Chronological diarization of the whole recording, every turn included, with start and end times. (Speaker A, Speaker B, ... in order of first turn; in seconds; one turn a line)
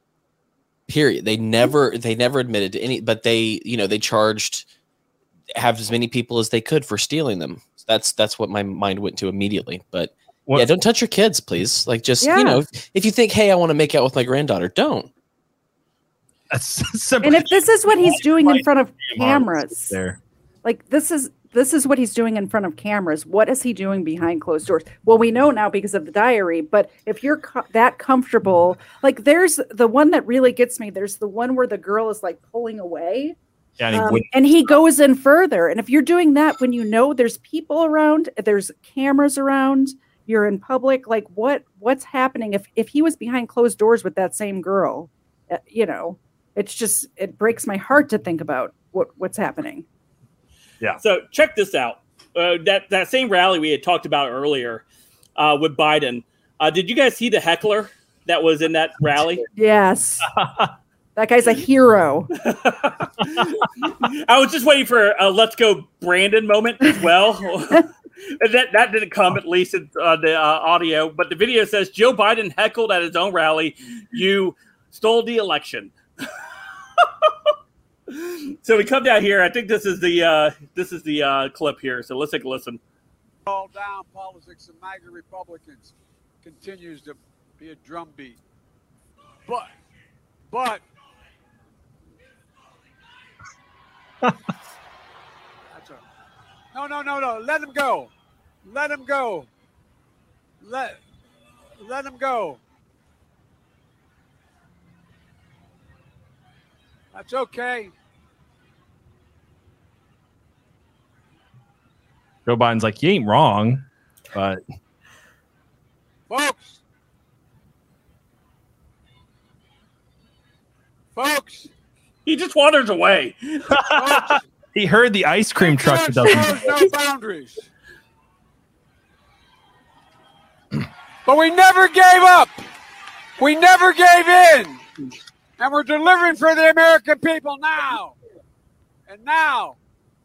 Speaker A: 0.9-4.7
Speaker A: 5.6-15.1
Speaker B: 12.2-12.6
Speaker C: 16.5-20.2
Speaker B: 17.2-19.9
Speaker B: 20.6-33.4
Speaker C: 33.8-34.4
Speaker B: 33.9-49.8
Speaker D: 51.0-54.8
Speaker D: 55.4-59.4
Speaker B: 59.5-60.3
Speaker C: 60.4-60.7
Speaker B: 61.1-62.3
Speaker D: 62.4-75.9
Speaker D: 77.0-77.3
Speaker D: 78.1-82.8
Speaker E: 83.5-88.4
Speaker E: 89.5-89.7
Speaker E: 90.5-90.8
Speaker E: 95.7-96.0
Speaker E: 96.7-98.1
Speaker E: 98.6-99.5
Speaker E: 100.6-101.0
Speaker E: 101.8-102.6
Speaker E: 107.1-107.9
Speaker C: 112.5-114.6
Speaker E: 116.3-116.8
Speaker E: 121.1-121.7
Speaker D: 122.2-123.8
Speaker C: 123.7-126.9
Speaker E: 123.9-124.4
Speaker E: 125.6-127.6
Speaker E: 131.2-132.6
Speaker E: 133.4-134.8
Speaker E: 135.6-138.2
Speaker E: 139.1-139.8